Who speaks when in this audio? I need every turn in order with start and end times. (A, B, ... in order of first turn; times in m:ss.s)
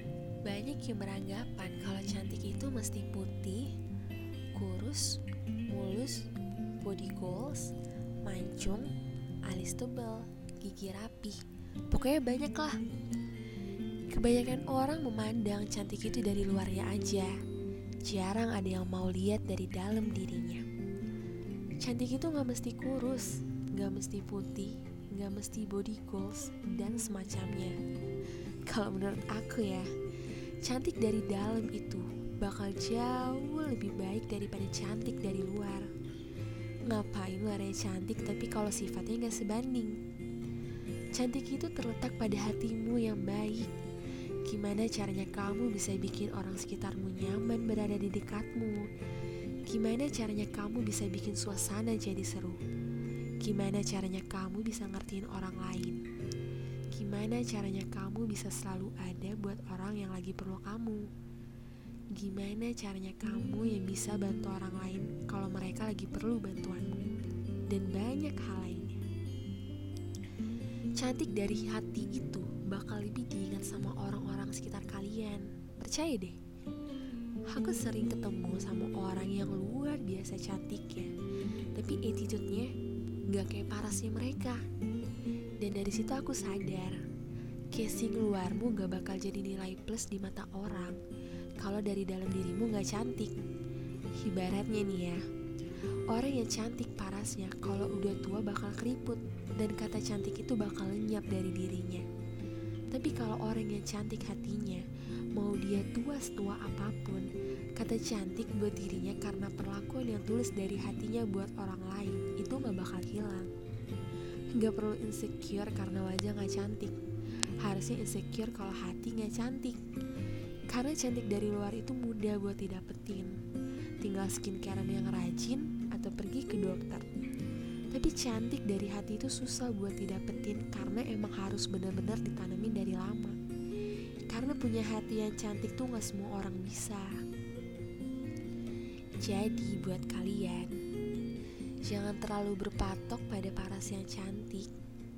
0:00.4-0:03.7 A
0:04.5-0:05.2 A
0:05.7-0:06.3 A
0:06.8-0:08.9 A
0:09.5-0:12.8 A
0:14.1-0:17.3 A
0:18.0-0:20.6 A
0:21.8-0:27.8 A
0:28.6-0:29.9 A
0:30.6-0:35.9 A
0:36.9-0:40.0 A
0:41.1-0:43.7 A
0:44.4-0:48.9 A
0:49.6-0:52.6 A
0:53.4-0:56.0 A
0:56.9-1:01.1 A
1:02.1-1:07.0 A
1:07.7-1:09.0 A
1:11.0-1:16.4 A
1:17.5-1:21.1 A
1:21.7-1:22.7 A
1:23.3-1:24.6 A
1:25.6-1:27.0 A
1:27.7-1:31.0 A
1:31.6-1:33.4 A
1:34.2-1:35.2 A
1:36.1-1:42.0 A
1:42.9-1:53.5 A
1:54.5-1:57.0 A
1:57.6-1:59.8 A
2:00.7-2:03.4 A
2:04.0-2:07.1 A
2:07.9-2:13.4 A
2:14.3-2:17.2 A
2:19.2-2:20.8 A
2:21.8-2:24.7 A